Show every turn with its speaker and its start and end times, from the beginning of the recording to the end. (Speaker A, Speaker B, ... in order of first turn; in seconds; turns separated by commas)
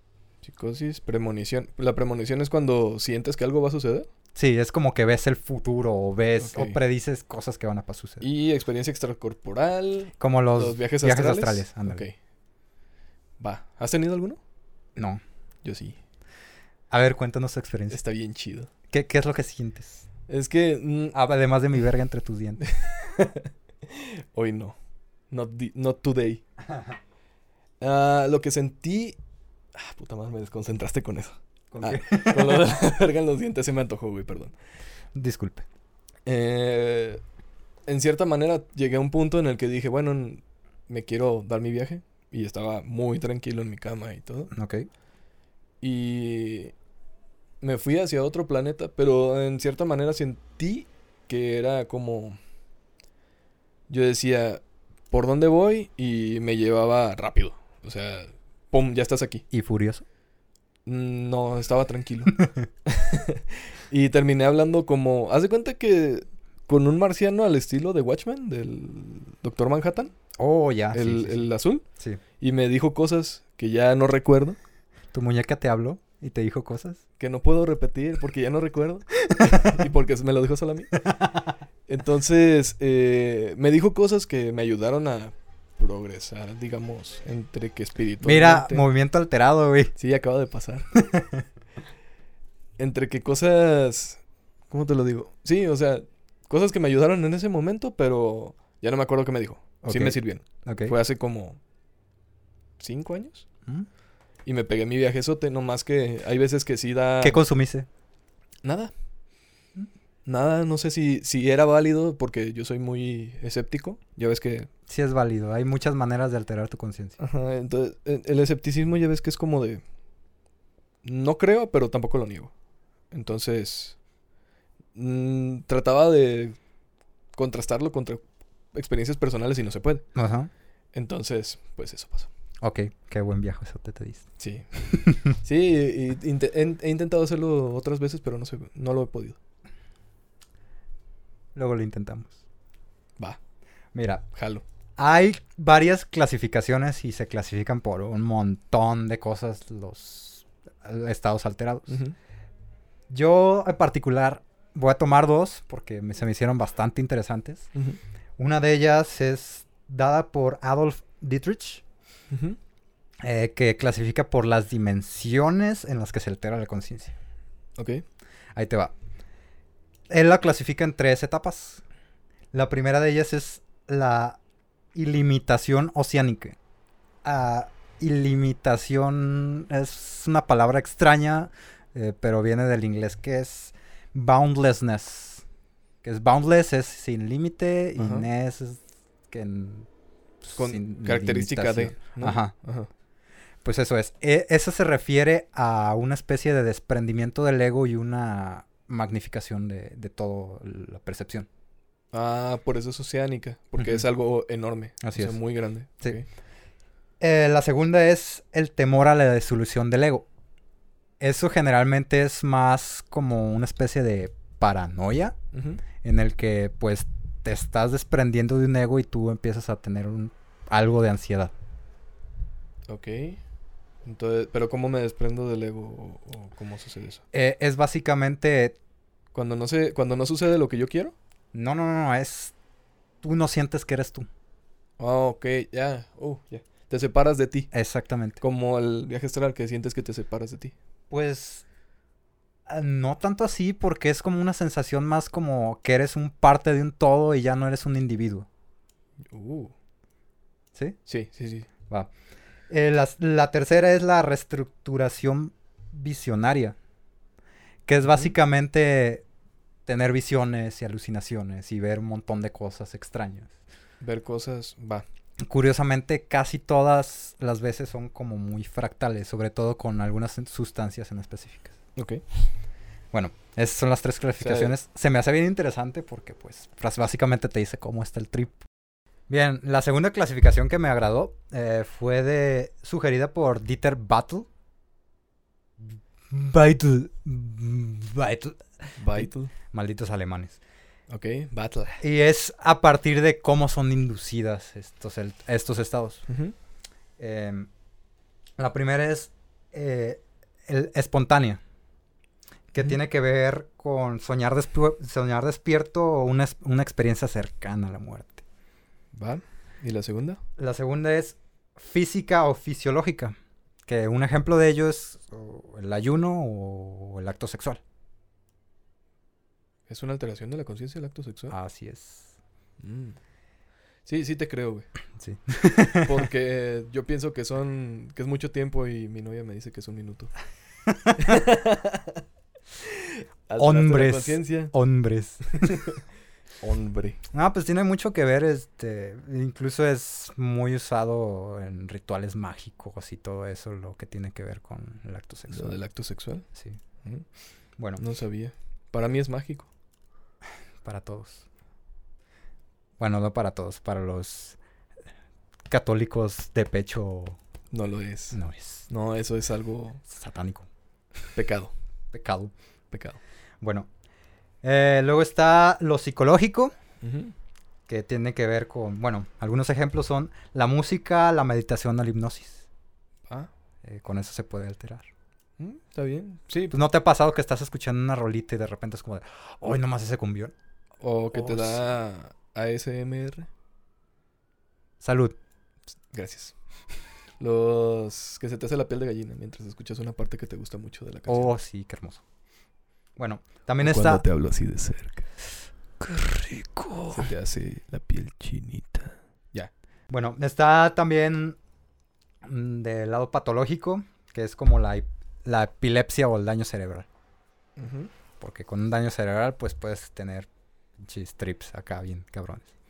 Speaker A: 0.4-4.1, Speaker B: 4.3-8.2, Speaker A: 6.4-6.8, Speaker A: 8.2-12.1, Speaker B: 10.2-12.0, Speaker A: 13.4-14.4, Speaker B: 14.9-15.2, Speaker A: 15.6-16.0, Speaker B: 16.9-18.0, Speaker A: 17.9-18.7, Speaker B: 18.9-20.0, Speaker A: 20.3-21.2, Speaker B: 21.1-22.6, Speaker A: 22.7-24.8, Speaker A: 25.3-26.4, Speaker B: 26.7-26.9, Speaker A: 27.8-29.2, Speaker A: 29.7-34.5, Speaker B: 31.7-32.6, Speaker B: 35.1-35.6, Speaker A: 36.2-37.2, Speaker A: 37.9-44.5, Speaker B: 44.5-44.9, Speaker A: 45.8-46.7, Speaker A: 47.6-52.4, Speaker A: 53.9-59.4, Speaker B: 59.5-60.0, Speaker A: 60.9-70.1, Speaker B: 70.4-71.5, Speaker A: 70.9-71.8, Speaker A: 72.4-74.6, Speaker B: 75.1-77.0, Speaker A: 77.2-81.0, Speaker B: 79.4-79.8, Speaker B: 81.0-81.5, Speaker A: 81.9-88.8, Speaker B: 88.2-89.9, Speaker A: 90.0-90.9, Speaker B: 90.9-91.4, Speaker A: 92.8-101.6, Speaker B: 99.8-100.9, Speaker A: 102.8-103.5, Speaker A: 104.4-107.4, Speaker B: 107.2-107.9, Speaker A: 108.6-108.9, Speaker A: 110.2-114.7, Speaker B: 114.9-117.2, Speaker A: 117.2-119.8, Speaker A: 121.0-122.5, Speaker A: 123.1-124.0, Speaker A: 124.9-126.6, Speaker A: 127.3-130.0, Speaker B: 130.1-130.5, Speaker A: 130.9-132.3, Speaker B: 132.6-134.2, Speaker A: 134.4-134.7, Speaker B: 134.9-135.3, Speaker A: 135.3-139.4, Speaker B: 141.5-142.3, Speaker B: 143.9-144.2, Speaker A: 144.3-144.6, Speaker B: 145.0-152.0, Speaker A: 151.9-152.2, Speaker B: 153.1-157.7, Speaker B: 158.4-161.8, Speaker A: 162.3-162.6, Speaker B: 163.2-167.1, Speaker A: 167.8-168.0, Speaker B: 168.5-168.9, Speaker B: 170.1-171.8, Speaker B: 172.5-174.4, Speaker B: 174.9-176.6, Speaker B: 177.2-185.4, Speaker B: 186.0-189.9, Speaker A: 188.0-188.3, Speaker B: 190.4-192.5, Speaker A: 190.6-192.9, Speaker B: 193.6-201.5, Speaker A: 202.1-206.3, Speaker B: 203.8-204.0, Speaker B: 205.0-205.4, Speaker B: 207.2-210.2, Speaker B: 211.2-215.3, Speaker A: 215.5-215.8, Speaker B: 216.0-221.5, Speaker A: 222.9-223.4, Speaker A: 224.0-227.2, Speaker B: 227.3-228.8, Speaker A: 229.3-231.1, Speaker B: 231.5-232.5, Speaker B: 233.2-234.3, Speaker A: 235.0-237.7, Speaker B: 237.7-238.4, Speaker A: 238.4-240.7, Speaker B: 241.1-241.6, Speaker B: 242.7-248.5, Speaker A: 249.3-249.7, Speaker A: 251.1-251.7, Speaker B: 252.7-256.8, Speaker B: 257.9-259.2, Speaker B: 259.9-263.5, Speaker A: 264.0-265.0, Speaker B: 265.4-271.7, Speaker A: 271.9-272.2, Speaker B: 273.1-278.6, Speaker A: 274.4-274.7, Speaker B: 279.3-284.5, Speaker B: 286.3-290.6, Speaker A: 289.0-289.5, Speaker A: 291.1-292.0, Speaker B: 292.0-296.2, Speaker A: 296.3-296.5, Speaker B: 297.2-297.7, Speaker B: 298.6-301.6, Speaker B: 302.7-308.4, Speaker A: 309.1-310.4, Speaker B: 310.6-317.8, Speaker A: 319.9-321.5, Speaker B: 321.5-322.3, Speaker A: 322.8-323.2, Speaker A: 324.1-324.9, Speaker B: 325.2-326.2, Speaker A: 326.0-330.3, Speaker B: 330.9-331.3, Speaker A: 331.1-332.2, Speaker A: 332.8-334.7, Speaker B: 333.6-335.7, Speaker A: 335.5-336.0, Speaker A: 336.6-337.2, Speaker B: 337.3-345.8, Speaker A: 345.5-346.4, Speaker A: 348.0-349.7, Speaker B: 350.8-351.4, Speaker B: 353.0-354.6, Speaker B: 355.7-357.4, Speaker A: 357.7-360.0, Speaker B: 358.3-358.9, Speaker B: 360.1-360.7, Speaker A: 361.3-361.7, Speaker B: 362.1-362.5, Speaker A: 362.9-363.2, Speaker B: 363.6-363.9, Speaker B: 364.6-366.7, Speaker A: 367.0-367.3, Speaker B: 367.9-372.6, Speaker B: 373.8-375.1, Speaker A: 375.6-376.8, Speaker B: 376.7-380.5, Speaker A: 381.0-383.5, Speaker B: 381.3-381.9, Speaker B: 385.0-385.4, Speaker A: 386.1-386.5, Speaker A: 387.4-391.5, Speaker B: 391.3-392.2, Speaker B: 393.2-394.2, Speaker A: 393.8-395.3, Speaker B: 396.0-397.3, Speaker A: 397.1-399.7, Speaker B: 400.1-401.6, Speaker B: 402.4-407.1, Speaker A: 407.8-408.1, Speaker B: 408.4-412.7